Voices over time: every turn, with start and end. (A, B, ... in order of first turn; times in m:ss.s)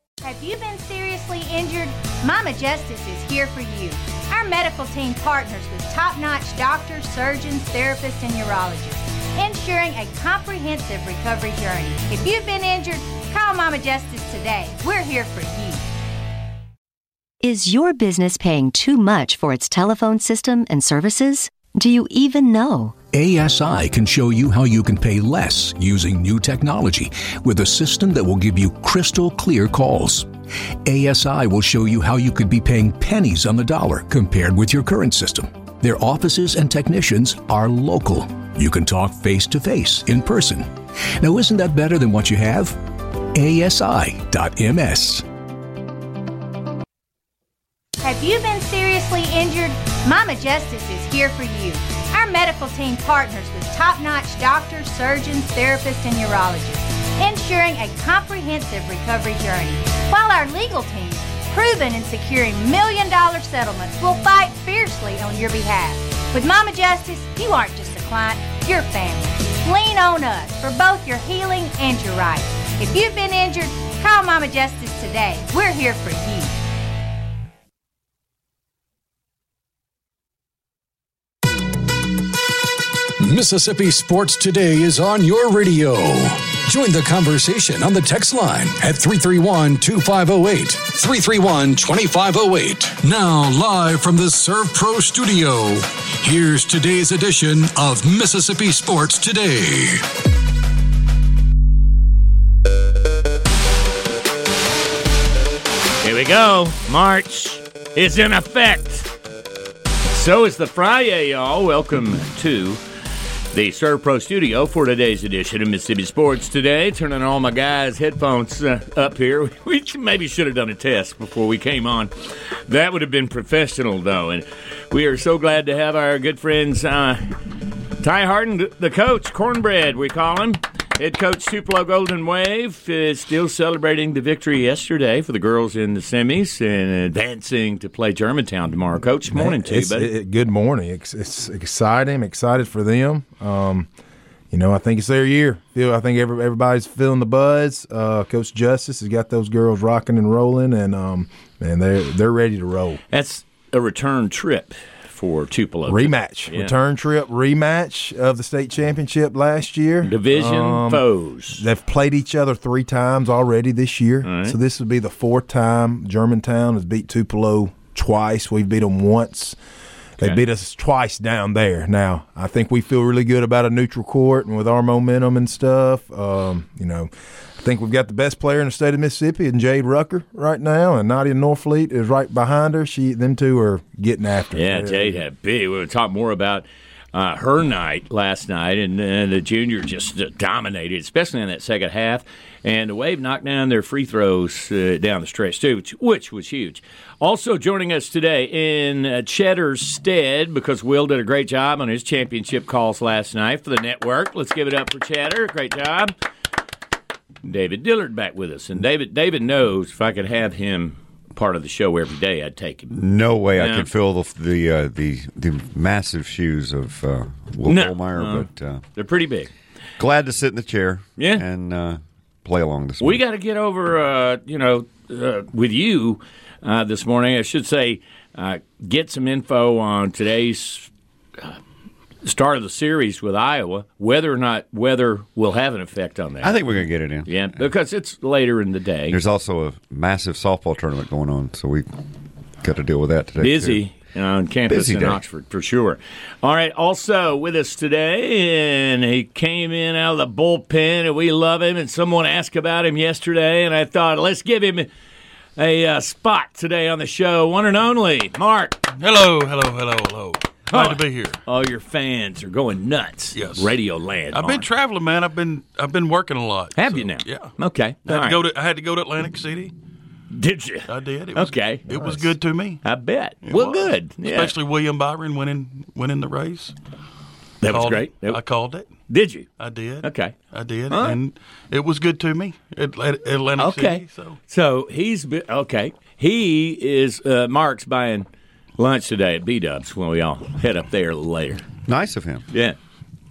0:00.2-0:15.9 A
0:17.4-0:23.0 B
0:23.1-0:30.3 C
0:30.8-0:45.2 C
0:48.0-1:16.6 A
1:23.2-1:40.1 D
1:46.0-1:49.1 E
1:50.1-1:52.8 E
1:53.5-2:07.4 E
2:08.0-2:20.1 E
2:19.3-2:23.9 F
2:24.5-2:33.0 F
2:33.1-2:36.7 E
2:35.9-2:49.6 F
2:40.0-2:41.6 E
2:44.2-2:44.6 E
2:50.2-3:05.2 F
3:04.6-3:26.1 E
3:27.4-3:33.0 E
3:32.9-3:38.8 G
3:33.6-3:33.9 E
3:37.7-3:39.5 E
3:40.0-3:43.2 G
3:41.2-3:41.4 E
3:43.0-3:50.9 E
3:52.2-3:56.6 E
3:56.4-3:57.5 G
3:57.3-3:59.2 E
3:59.1-4:01.9 G
4:02.6-4:03.8 G
4:03.4-4:14.9 E
4:04.7-4:05.2 G
4:15.6-4:18.8 E
4:19.0-4:21.4 H
4:20.7-4:24.7 E
4:23.4-4:23.7 H
4:24.3-4:27.5 H
4:26.8-4:28.4 E
4:28.1-4:29.7 H
4:30.3-4:32.2 E
4:30.9-4:32.8 H
4:32.8-4:34.6 E
4:33.4-4:36.8 H
4:37.6-4:38.4 E
4:37.7-4:38.9 H
4:39.1-4:39.5 E
4:39.6-4:44.4 H
4:40.0-4:40.4 E
4:40.9-4:41.2 E
4:43.6-4:48.3 E
4:48.8-4:51.6 E
4:51.9-4:52.5 G
4:52.5-4:52.8 E